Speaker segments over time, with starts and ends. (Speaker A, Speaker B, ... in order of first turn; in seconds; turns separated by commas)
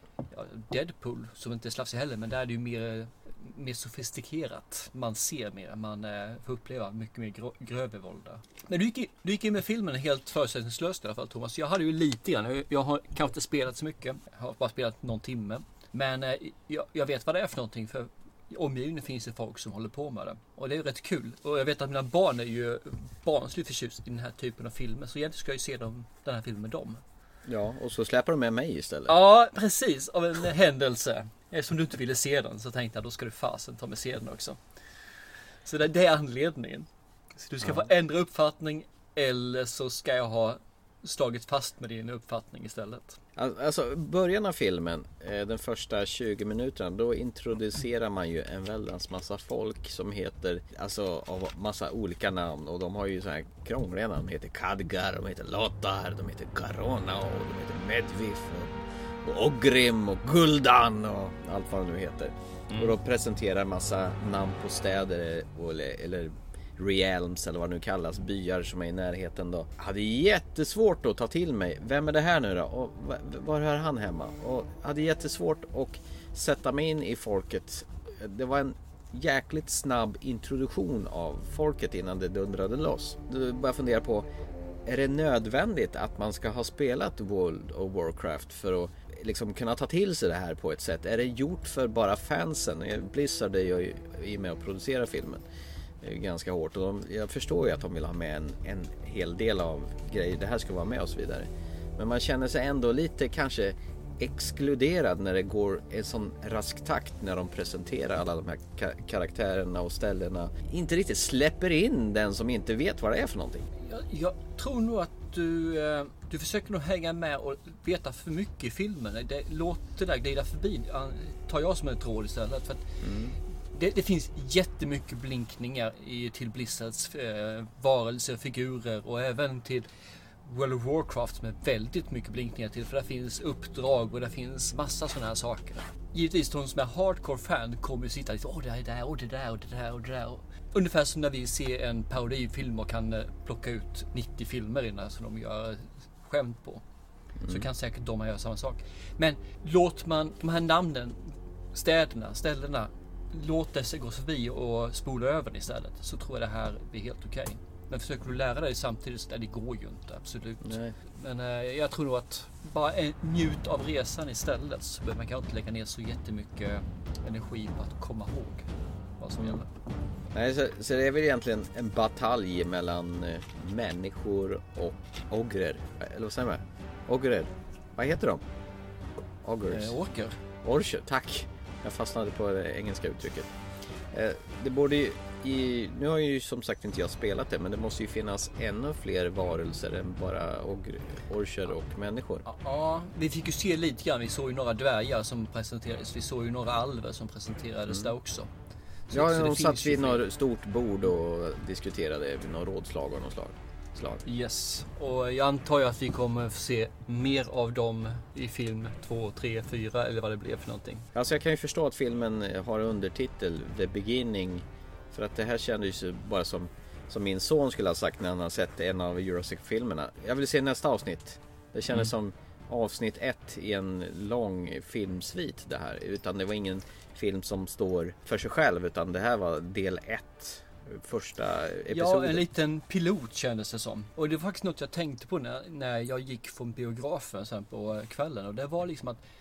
Speaker A: 0.3-27.0, Speaker B: 27.4-29.2, Speaker A: 29.1-34.6, Speaker A: 35.6-43.2, Speaker B: 37.6-37.9, Speaker B: 43.4-84.2, Speaker B: 84.8-95.4, Speaker B: 96.0-113.7, Speaker A: 113.8-122.8, Speaker B: 123.0-123.4, Speaker A: 123.7-129.9, Speaker A: 130.4-146.8, Speaker B: 147.4-147.7, Speaker A: 147.5-169.7, Speaker B: 160.6-160.9, Speaker B: 170.3-178.4, Speaker B: 179.4-179.9, Speaker A: 179.7-180.4, Speaker B: 180.6-183.5, Speaker B: 184.1-192.4, Speaker A: 192.4-198.5, Speaker A: 199.1-200.2, Speaker B: 199.1-204.2, Speaker A: 204.2-211.1, Speaker B: 211.1-232.4, Speaker A: 231.9-239.2